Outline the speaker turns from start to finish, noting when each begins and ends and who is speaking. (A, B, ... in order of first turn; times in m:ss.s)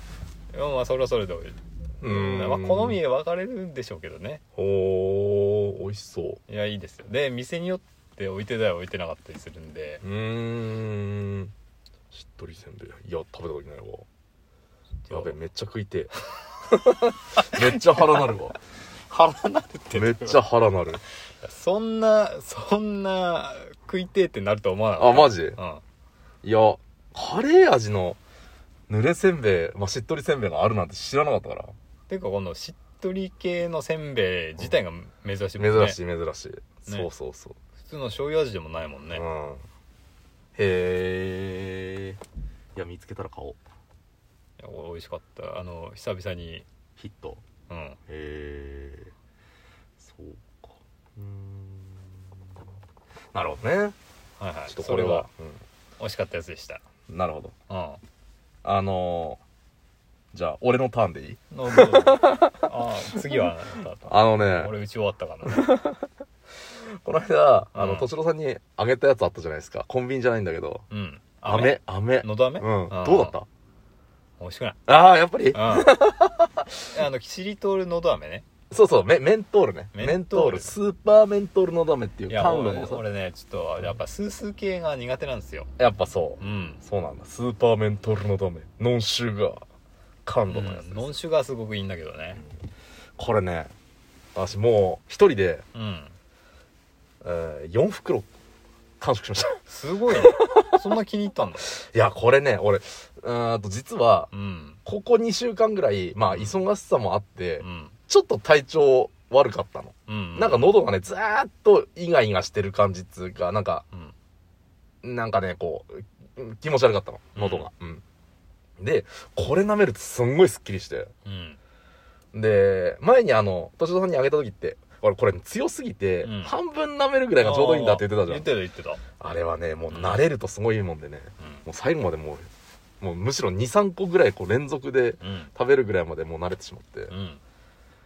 0:00.5-0:04.4 A
0:02.0-0:03.0 B
0:04.5-0:06.4 B
0:06.5-0:10.0 A
0:10.0-0:11.5 B
0:12.1-0:14.0 B
0:15.1-0:15.3 A
0:15.1-0:16.1 B
0:16.7-0:18.6 B
0:17.3-0:18.2 A
0:19.1-0:20.4 A
0:19.9-0:21.0 B
0:21.4-0:25.8 A
0:25.0-0:25.6 B
0:26.4-0:28.2 B
0:28.9-0:31.7 B
0:32.1-0:36.0 A
0:35.6-0:37.6 B
0:37.8-0:39.2 A
0:39.1-0:39.6 B
0:40.6-0:42.2 B
0:42.7-0:43.6 B
0:44.6-0:46.6 A
0:47.0-0:47.4 B
0:47.7-0:48.0 A
0:48.1-0:49.1 B
0:50.0-0:52.2 B
0:53.3-0:54.0 B
0:54.4-0:55.3 A
0:54.7-0:55.6 B
0:56.0-0:56.8 A
0:57.1-0:57.5 B
0:57.7-0:58.0 A
0:58.6-0:59.4 B
1:00.3-1:04.7 B
1:01.5-1:05.7 A
1:05.5-1:06.1 B
1:06.6-1:10.8 B
1:07.7-1:08.1 A
1:10.9-1:13.4 A
1:11.4-1:13.5 B
1:14.4-1:14.8 A
1:14.9-1:16.9 B
1:15.5-1:16.1 A
1:16.9-1:18.4 A
1:18.7-1:23.0 B
1:19.9-1:20.8 A
1:22.3-1:25.7 A
1:25.8-1:29.6 B
1:26.4-1:26.8 A
1:30.2-1:31.2 B
1:30.5-1:32.4 A
1:33.2-1:33.7 B
1:34.3-1:35.6 B
1:35.7-1:36.1 A
1:37.2-1:38.3 B
1:39.0-1:39.6 B
1:39.6-1:41.7 A
1:40.1-1:40.9 B
1:41.6-1:44.3 B
1:44.3-1:44.8 A
1:44.8-1:53.8 B
1:46.3-1:46.6 A
1:47.6-1:48.0 A
1:50.1-1:50.8 A
1:55.0-1:58.0 B
1:57.3-1:57.7 A
1:58.8-2:01.1 B
2:01.2-2:01.6 A
2:02.3-2:08.5 B
2:06.2-2:06.6 A
2:07.4-2:09.0 A
2:09.2-2:12.5 B
2:09.9-2:10.2 A
2:13.0-2:17.1 B
2:15.2-2:15.5 A
2:17.1-2:17.4 A